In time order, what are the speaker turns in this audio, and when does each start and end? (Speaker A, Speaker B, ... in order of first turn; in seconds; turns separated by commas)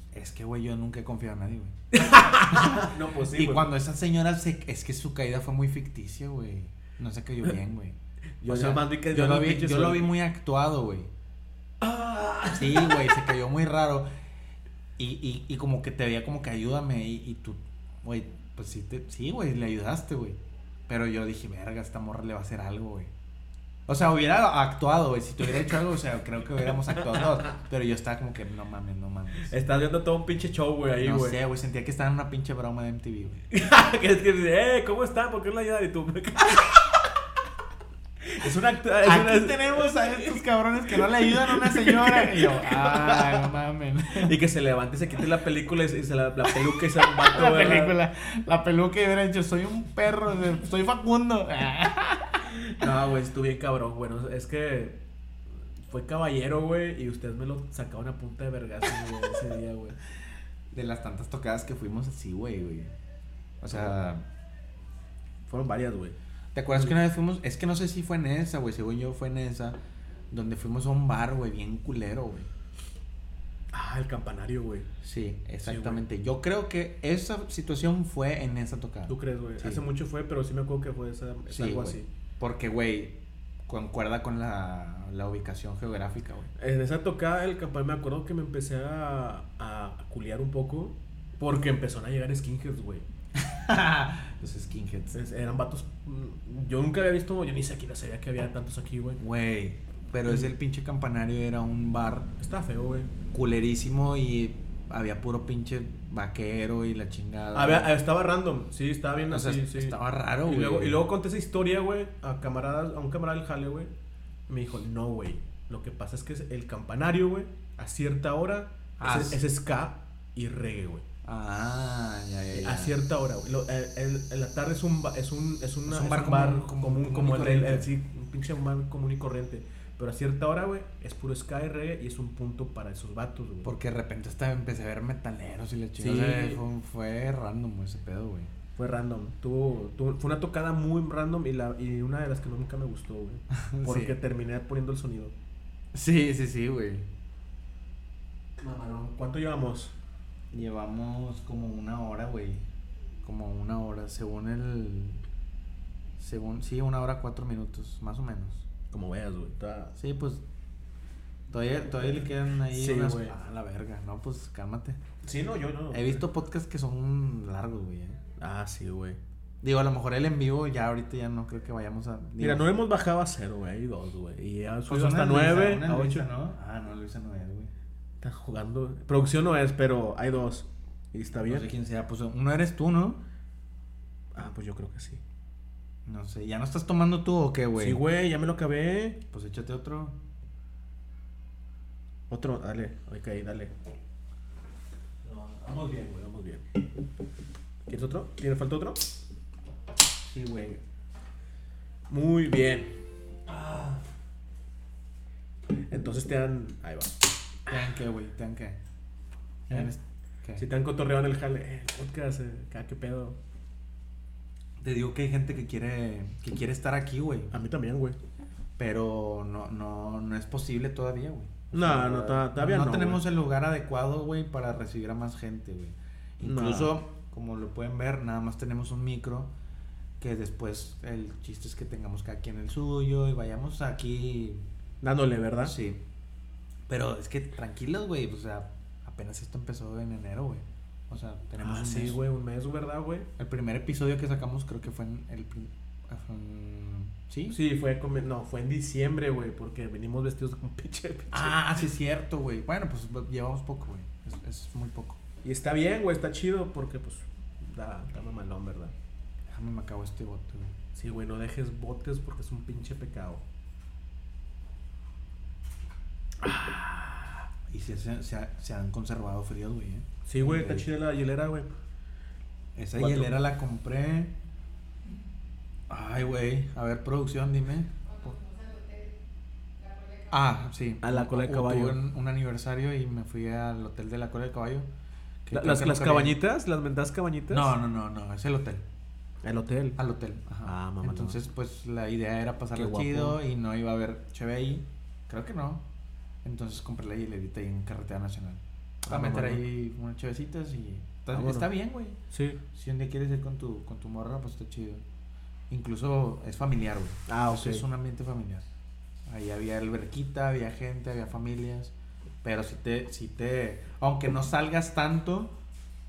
Speaker A: 0.1-1.7, Speaker B: 1.9-3.7, Speaker A: 2.5-11.1, Speaker B: 8.4-10.1, Speaker B: 11.8-13.2, Speaker A: 12.5-14.1, Speaker A: 15.0-23.1, Speaker A: 23.9-29.5, Speaker B: 29.4-31.4, Speaker A: 31.0-33.4, Speaker B: 33.5-36.9, Speaker B: 38.3-43.5, Speaker A: 39.0-44.3, Speaker B: 44.1-48.0, Speaker A: 47.0-52.5, Speaker B: 52.6-55.0, Speaker B: 55.9-60.0, Speaker A: 60.7-62.9, Speaker A: 63.6-64.2, Speaker B: 65.5-66.2, Speaker A: 66.5-69.8, Speaker A: 70.3-72.5, Speaker B: 73.7-74.9, Speaker A: 75.0-79.8, Speaker B: 75.6-76.0, Speaker B: 79.1-82.1, Speaker A: 81.5-83.1, Speaker A: 83.7-86.5, Speaker B: 86.6-93.0, Speaker A: 93.4-95.2, Speaker B: 95.1-99.2, Speaker A: 99.2-102.3, Speaker B: 100.2-100.5, Speaker B: 102.4-103.1, Speaker A: 103.3-107.9, Speaker B: 107.5-113.9, Speaker A: 109.3-111.0, Speaker B: 114.5-121.0, Speaker A: 119.0-119.4, Speaker A: 121.2-123.0, Speaker B: 122.5-133.7, Speaker A: 125.9-127.9, Speaker A: 133.6-138.5, Speaker B: 136.0-136.6, Speaker B: 138.8-145.3, Speaker A: 143.5-144.2, Speaker A: 145.9-147.1, Speaker B: 148.6-149.9, Speaker A: 150.5-152.6, Speaker A: 153.2-155.2, Speaker A: 156.2-158.7, Speaker B: 158.9-159.9, Speaker A: 160.0-160.4, Speaker A: 161.5-165.0, Speaker B: 162.7-163.3, Speaker B: 165.2-166.2, Speaker A: 165.9-168.2, Speaker B: 168.4-169.2, Speaker A: 169.6-172.7, Speaker B: 172.4-176.3, Speaker A: 174.9-177.7, Speaker B: 178.2-181.7, Speaker A: 181.5-183.2, Speaker B: 184.3-185.2, Speaker A: 186.1-188.0, Speaker B: 187.8-189.2, Speaker A: 189.3-190.1, Speaker B: 192.3-193.7, Speaker B: 195.2-196.7, Speaker B: 197.9-199.0, Speaker B: 200.3-200.8, Speaker B: 202.1-202.9, Speaker B: 203.5-204.0, Speaker B: 205.9-207.2, Speaker A: 207.7-208.8, Speaker A: 209.7-210.7, Speaker B: 210.6-213.4, Speaker A: 214.8-217.5, Speaker B: 217.5-218.2, Speaker A: 218.8-229.5, Speaker B: 221.7-223.2, Speaker B: 226.4-226.9, Speaker A: 230.2-234.6, Speaker B: 235.0-235.7, Speaker A: 235.6-236.0, Speaker A: 236.9-242.2, Speaker B: 241.6-243.3, Speaker A: 243.4-247.6, Speaker B: 247.5-251.6, Speaker A: 251.3-255.2, Speaker B: 255.4-258.9, Speaker A: 259.5-260.7, Speaker B: 260.9-263.4, Speaker B: 266.4-267.5, Speaker A: 267.7-270.9, Speaker B: 270.2-271.7, Speaker A: 272.8-274.3, Speaker B: 272.9-273.3, Speaker A: 275.9-277.9, Speaker C: 278.0-279.2, Speaker C: 279.8-280.5, Speaker A: 280.3-284.9, Speaker B: 281.0-282.0, Speaker A: 285.4-286.4, Speaker B: 285.5-287.7, Speaker A: 287.5-288.8, Speaker B: 289.4-290.0, Speaker A: 290.0-295.8, Speaker B: 290.6-291.4, Speaker B: 292.7-293.4, Speaker A: 296.4-302.2, Speaker B: 299.0-299.6, Speaker B: 301.3-301.7, Speaker B: 302.3-302.6, Speaker A: 302.7-305.0, Speaker A: 305.7-308.6, Speaker B: 307.3-307.8, Speaker A: 309.3-315.5